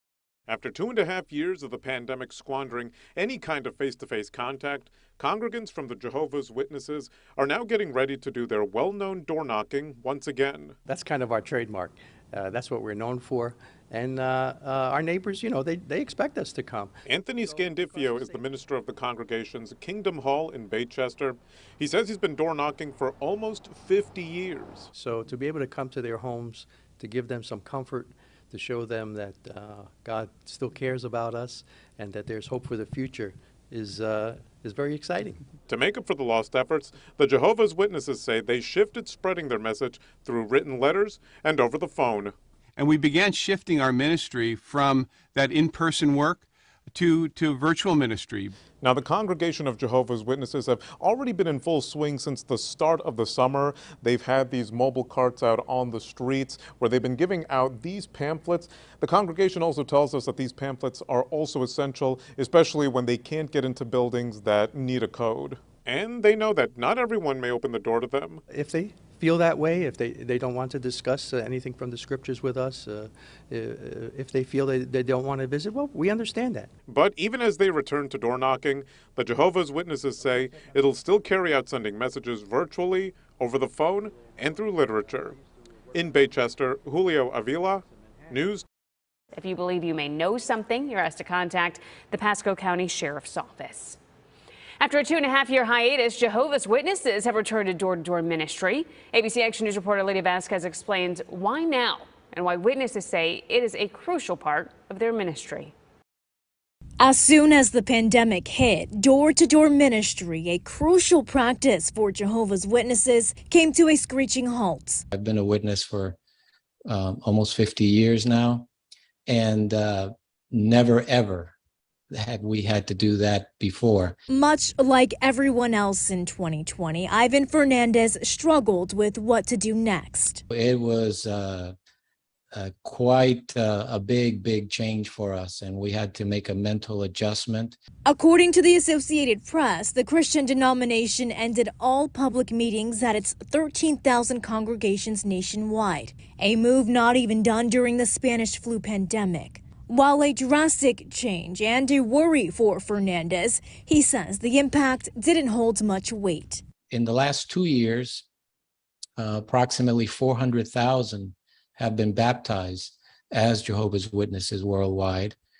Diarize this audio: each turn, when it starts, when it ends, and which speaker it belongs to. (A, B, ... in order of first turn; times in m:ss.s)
0:00.5-0:10.8 A
0:10.8-0:18.4 B
0:17.1-0:24.9 A
0:24.9-0:35.4 B
0:35.7-0:42.3 A
0:42.8-0:48.6 C
0:48.8-1:08.4 A
1:08.5-1:16.7 B
1:16.9-1:25.4 A
1:25.9-1:28.6 A
1:29.3-1:34.0 D
1:34.8-1:45.7 D
1:47.0-1:55.0 E
1:55.1-1:56.2 F
1:56.9-1:58.7 F
1:59.3-2:01.5 F
2:02.1-2:04.2 F
2:04.3-2:10.4 E
2:10.5-2:11.7 F
2:12.5-2:17.8 F
2:18.0-2:36.6 E
2:36.9-2:38.2 F
2:39.2-2:45.4 F